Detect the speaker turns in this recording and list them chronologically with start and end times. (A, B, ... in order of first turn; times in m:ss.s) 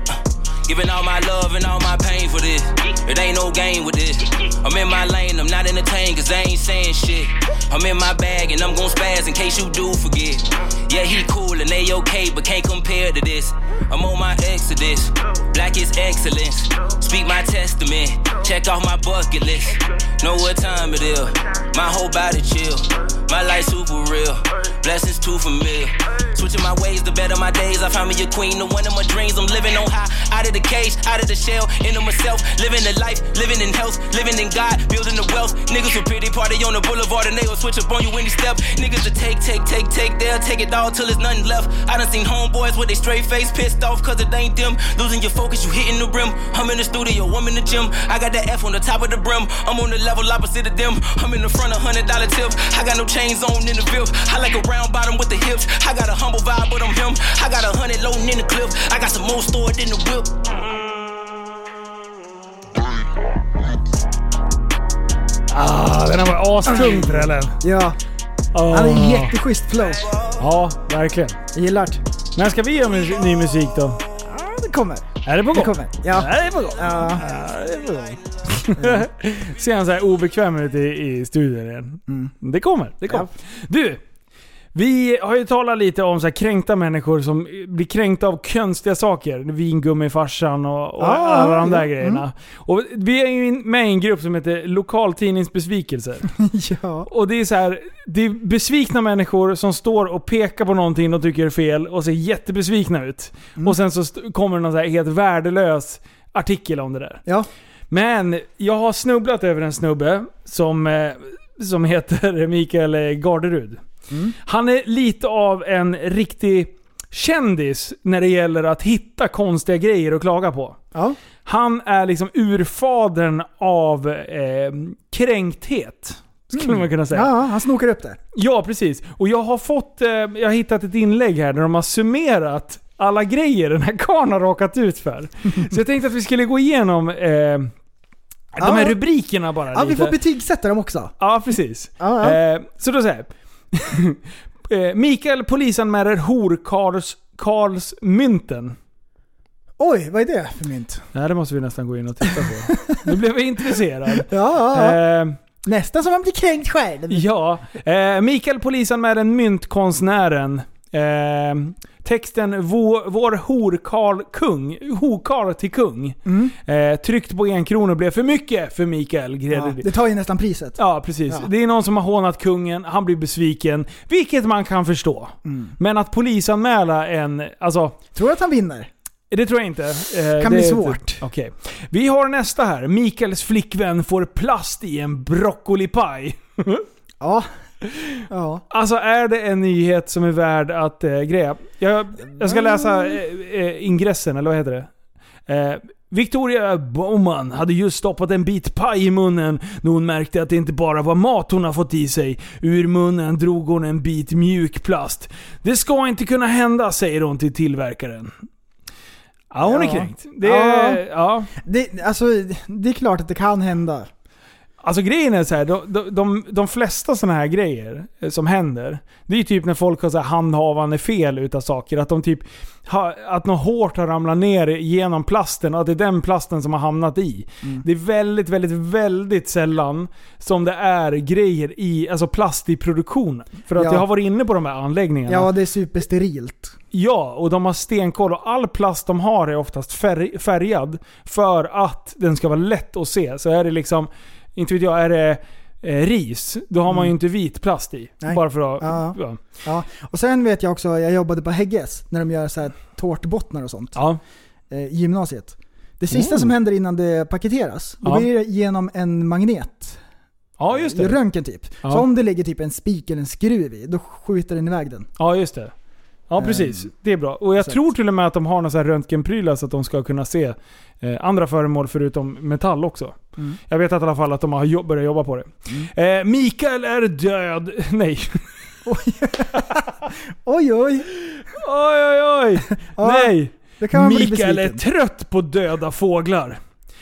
0:00.7-1:00.4 A
1:05.5-1:07.6 B
1:06.7-1:08.0 C
1:08.5-1:09.3 B
1:08.7-1:10.1 C
1:10.4-1:11.4 B
1:11.5-1:12.0 C
1:12.4-1:14.0 B
1:14.2-1:17.2 C
1:15.2-1:24.0 B
1:18.7-1:19.1 C
1:22.1-1:22.3 C
1:24.7-1:36.3 B
1:31.0-1:32.2 C
1:36.4-1:37.1 C
1:37.1-1:47.2 B
1:47.9-1:53.8 B
1:54.4-2:00.8 B
2:01.4-2:07.3 B
2:06.6-2:08.2 C
2:08.3-2:17.7 B
2:18.6-2:20.2 B
2:18.6-2:19.0 C
2:19.7-2:21.1 C
2:21.2-2:28.8 B
2:22.0-2:22.4 C
2:29.8-2:31.1 C
2:31.1-2:35.4 B
2:32.3-2:33.0 C
2:34.1-2:35.0 C
2:35.6-2:37.3 C
2:37.1-2:49.9 B
2:46.3-2:46.5 C
2:49.5-2:51.5 C
2:50.8-2:58.0 B
2:55.4-2:55.7 C
2:58.1-2:58.9 C
2:59.3-3:06.9 B
3:00.4-3:01.2 C
3:07.2-3:07.5 C
3:07.8-3:14.9 B
3:08.3-3:08.6 C
3:12.3-3:13.2 C
3:15.5-3:28.3 B
3:29.5-3:31.5 B
3:29.6-3:31.0 C
3:31.6-3:34.1 C
3:34.8-3:55.5 B
3:53.8-3:54.0 C
3:55.3-3:56.8 C
3:56.9-4:09.4 B
4:06.9-4:07.1 C
4:08.2-4:14.0 C
4:14.0-4:14.2 B
4:14.7-4:20.0 C
4:16.1-4:16.5 B
4:18.0-4:18.3 B
4:20.6-4:21.2 B
4:20.7-4:25.1 C
4:25.2-4:25.7 B
4:26.3-4:38.5 B
4:26.4-4:26.9 C
4:38.9-4:41.1 C
4:41.3-4:46.6 B
4:43.0-4:44.8 C